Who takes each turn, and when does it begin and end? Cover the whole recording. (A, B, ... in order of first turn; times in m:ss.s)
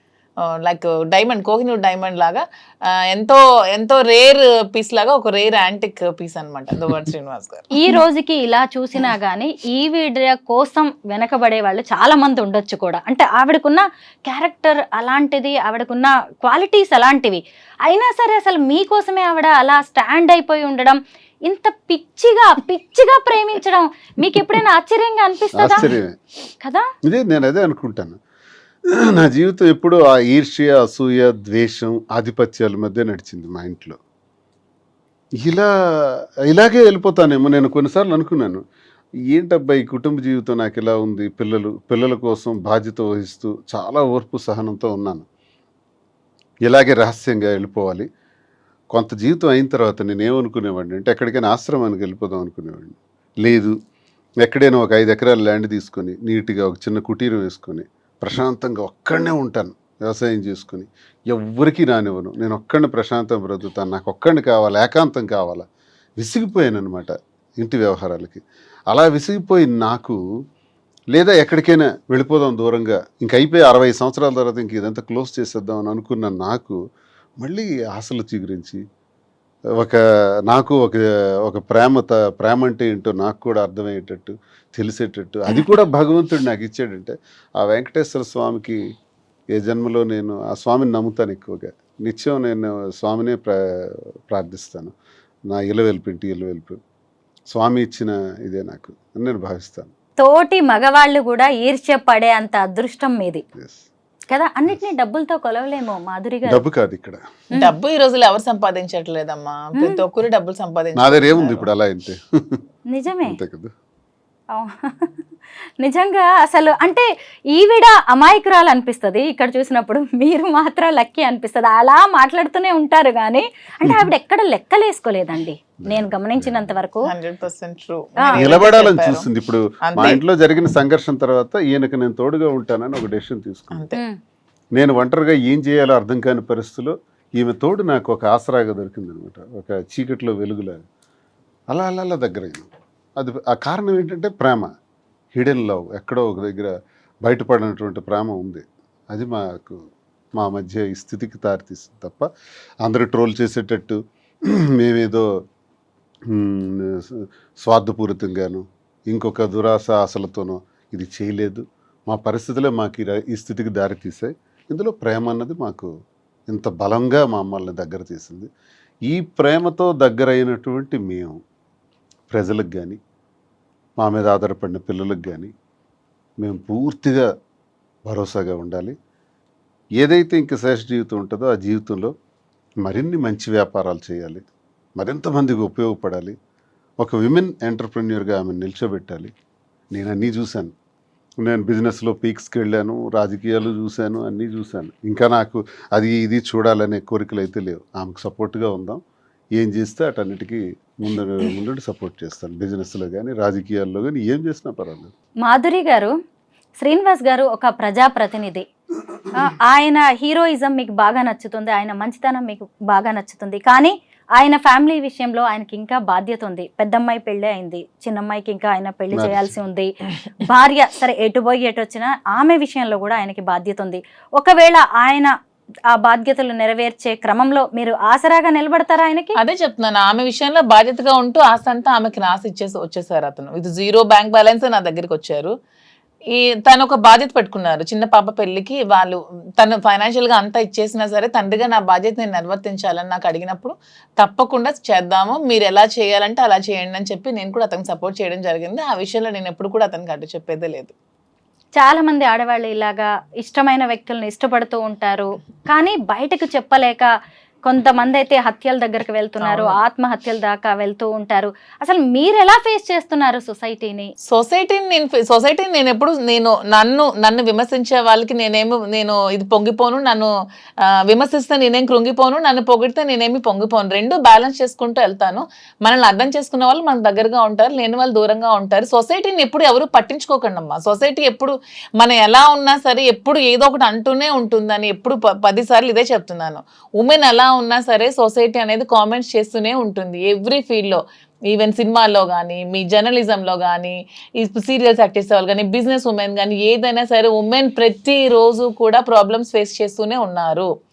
0:00.4-0:08.0 A
0:07.7-0:25.9 B
0:25.6-0:26.2 C
0:26.6-0:26.8 B
0:27.1-0:28.2 C
0:28.9-0:34.0 C
0:35.4-0:38.6 C
0:39.3-0:45.2 C
0:46.6-0:48.1 C
0:48.9-0:53.8 C
0:54.4-1:05.6 C
1:06.2-1:10.2 C
1:11.1-1:16.8 C
1:17.4-1:18.8 C
1:19.8-1:28.8 C
1:29.5-1:34.9 C
1:35.5-1:36.8 C
1:37.5-1:39.9 C
1:40.2-1:43.4 B
1:43.5-1:43.8 C
1:44.3-1:46.6 B
1:46.4-1:47.2 C
1:47.5-1:51.7 A
1:49.8-1:50.0 B
1:51.0-1:52.6 C
1:52.9-1:53.4 B
1:53.2-1:53.7 C
1:54.5-1:55.1 B
1:55.8-2:07.0 B
2:05.8-2:06.7 C
2:07.1-2:09.2 A
2:08.2-2:08.5 B
2:08.4-2:13.8 C
2:09.8-2:10.2 A
2:13.7-2:14.0 A
2:14.7-2:20.8 C
2:21.7-2:24.7 C
2:25.3-2:26.7 C
2:27.2-2:29.8 C
2:30.4-2:32.3 C
2:32.8-2:35.2 C
2:36.3-2:45.9 C
2:46.5-2:48.5 C
2:49.1-2:51.4 C
2:52.3-2:53.0 C
2:54.0-2:55.5 C
2:56.4-2:57.3 C
2:58.0-2:58.9 C
3:00.0-3:02.1 C
3:02.8-3:04.4 C
3:05.0-3:06.3 C
3:07.0-3:09.3 C
3:09.9-3:10.7 C
3:11.4-3:19.0 C
3:19.6-3:25.1 C
3:25.4-3:26.1 B
3:26.8-3:28.6 B
3:29.4-3:45.3 B
3:39.1-3:39.5 C
3:45.9-3:49.3 B
3:49.4-3:55.5 A
3:56.3-4:10.9 A
4:11.8-4:17.1 B
4:17.6-4:24.1 B
4:19.4-4:19.8 A
4:24.3-4:30.3 A
4:30.8-5:00.7 A